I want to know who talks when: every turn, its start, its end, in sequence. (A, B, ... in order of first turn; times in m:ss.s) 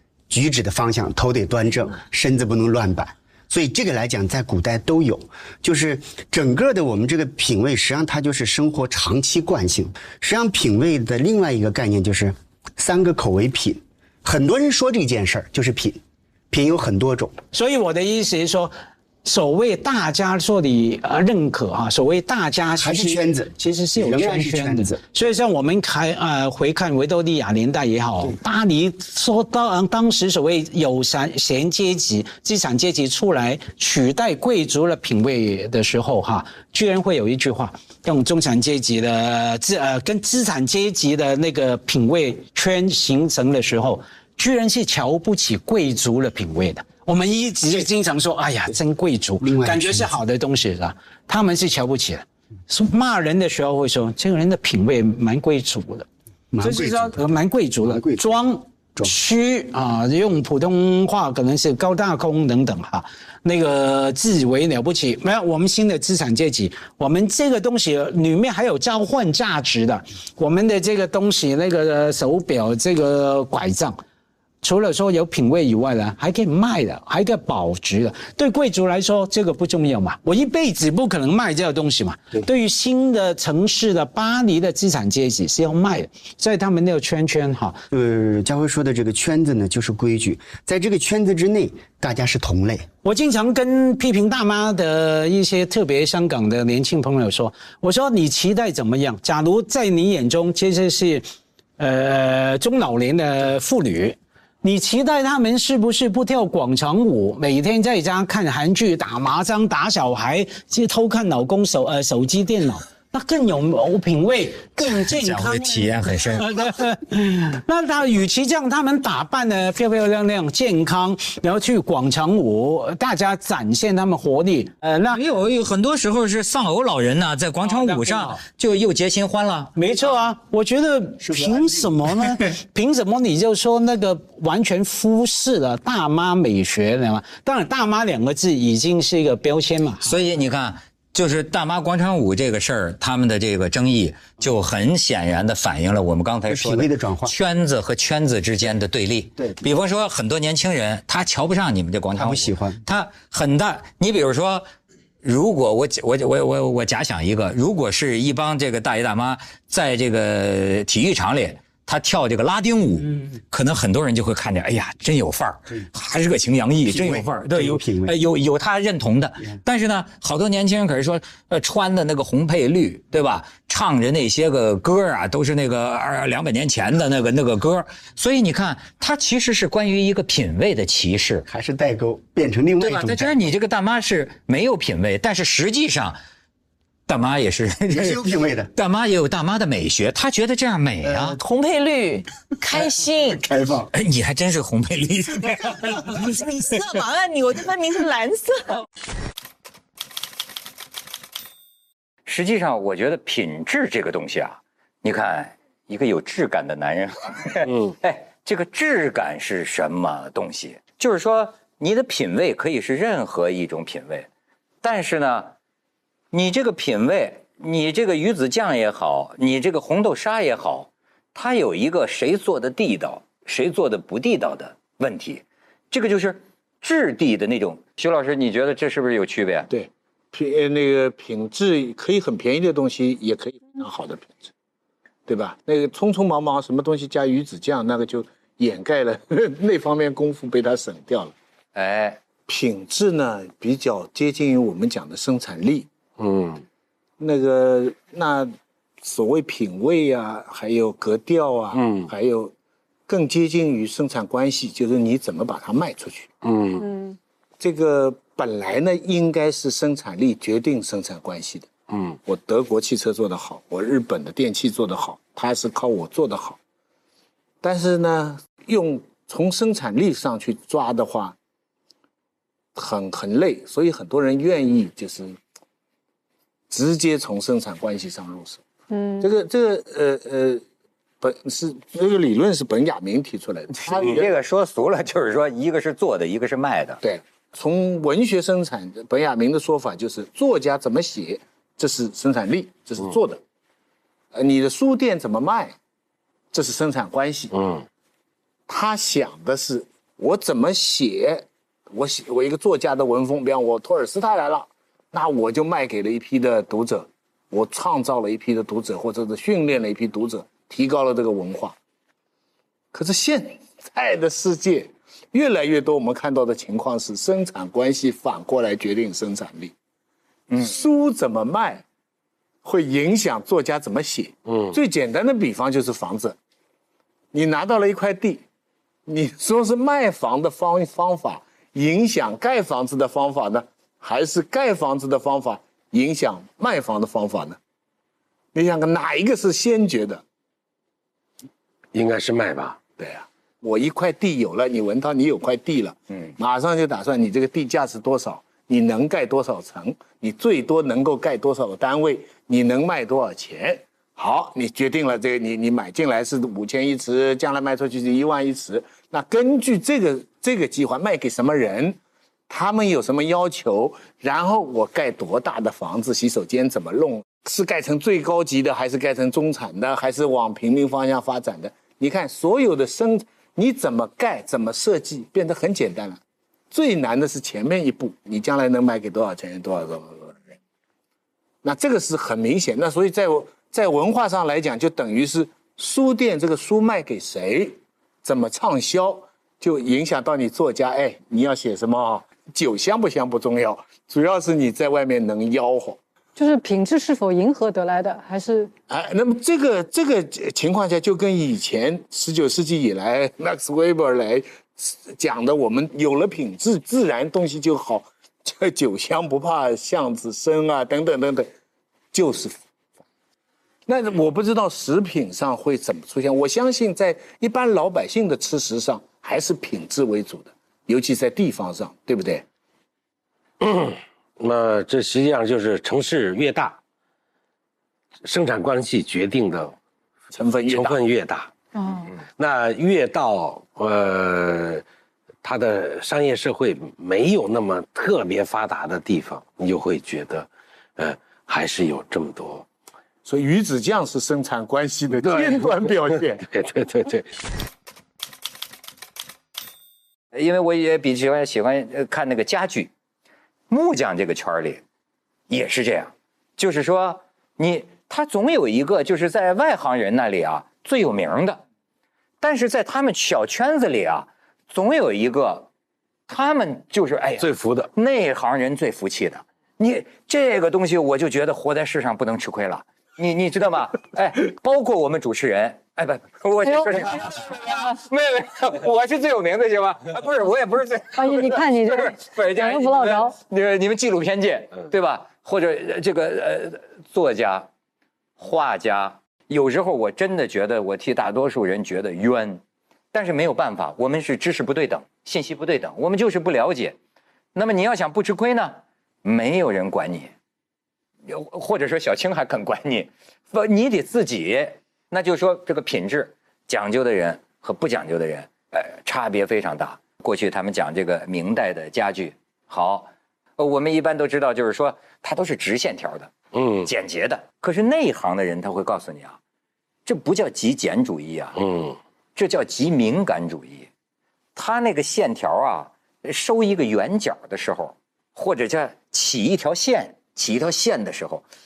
0:00.3-0:17.4 A
0:17.5-0:18.7 B
0:19.2-0:56.1 B
0:22.8-0:25.0 A
0:49.4-0:50.1 A
0:56.5-0:57.2 A
0:56.6-1:14.0 B
0:57.8-0:58.4 A
1:14.6-1:27.8 B
1:27.9-1:32.9 A
1:33.0-1:41.2 B
1:41.8-2:05.2 B
1:55.0-1:56.7 C
2:05.1-2:09.7 C
2:07.6-2:08.4 B
2:09.7-2:20.1 B
2:11.2-2:11.9 A
2:20.0-2:34.7 C
2:26.5-2:27.3 A
2:32.1-2:32.8 A
2:35.2-3:01.5 C
2:46.8-2:48.1 A
3:01.5-3:03.5 A
3:02.8-3:06.2 C
3:07.1-3:08.2 C
3:07.9-3:08.7 A
3:08.7-3:11.4 C
3:11.0-3:11.3 A
3:11.4-3:13.4 D
3:13.4-3:13.9 A
3:13.9-3:16.2 C
3:16.3-3:18.8 D
3:22.3-3:34.3 C
3:27.6-3:27.9 E
3:34.8-3:35.5 C
3:36.3-3:49.7 C
3:49.7-3:54.5 F
3:55.3-4:01.3 F
4:01.7-4:02.2 C
4:02.5-4:05.9 F
4:06.2-4:06.6 E
4:07.2-4:12.5 F
4:11.7-4:12.1 E
4:13.1-4:16.3 F
4:16.4-4:16.8 E
4:16.8-4:17.2 G
4:17.6-4:21.7 F
4:21.9-4:22.2 E
4:22.2-4:26.6 F
4:27.6-4:31.3 F
4:32.7-4:35.4 F
4:36.7-4:38.6 F
4:38.9-4:39.3 G
4:39.2-4:40.6 F
4:41.2-4:44.3 F
4:43.8-4:47.0 C
4:47.0-4:53.4 F
4:54.3-4:55.8 F
4:56.5-4:57.5 F
4:57.5-4:57.8 E
4:58.7-5:11.8 F
5:12.9-5:19.7 F
5:20.5-5:20.8 C
5:20.6-5:21.8 F
5:22.6-5:26.4 F
5:24.4-5:24.8 E
5:27.3-5:28.4 F
5:29.1-5:37.6 F
5:38.5-5:40.2 F
5:41.9-5:42.8 E
5:43.0-6:16.2 F
6:16.7-6:20.4 F
6:21.6-6:36.0 F
6:36.4-6:38.7 G
6:38.9-6:51.5 F
6:52.1-6:52.6 F
6:53.9-7:02.4 F
7:03.6-7:06.8 E
7:08.2-7:09.8 E
7:10.3-7:11.0 F
7:10.7-7:11.5 E
7:11.7-7:12.1 G
7:12.3-7:14.8 E
7:15.4-7:22.6 E
7:23.2-7:26.5 F
7:25.2-7:25.6 E
7:26.5-7:27.3 E
7:30.3-7:32.9 C
7:33.7-7:34.8 C
7:35.5-7:41.6 C
7:42.4-7:45.7 C
7:46.3-8:07.7 C
7:47.4-7:47.9 E
7:56.6-7:57.1 G
8:01.1-8:03.3 G
8:08.4-8:12.6 C
8:13.1-8:17.0 C
8:17.5-8:20.3 C
8:21.2-8:36.3 C
8:36.5-8:36.9 E
8:36.8-8:39.4 C
8:40.0-8:41.6 C
8:41.6-8:42.0 E
8:42.4-8:43.9 C
8:44.5-8:51.4 C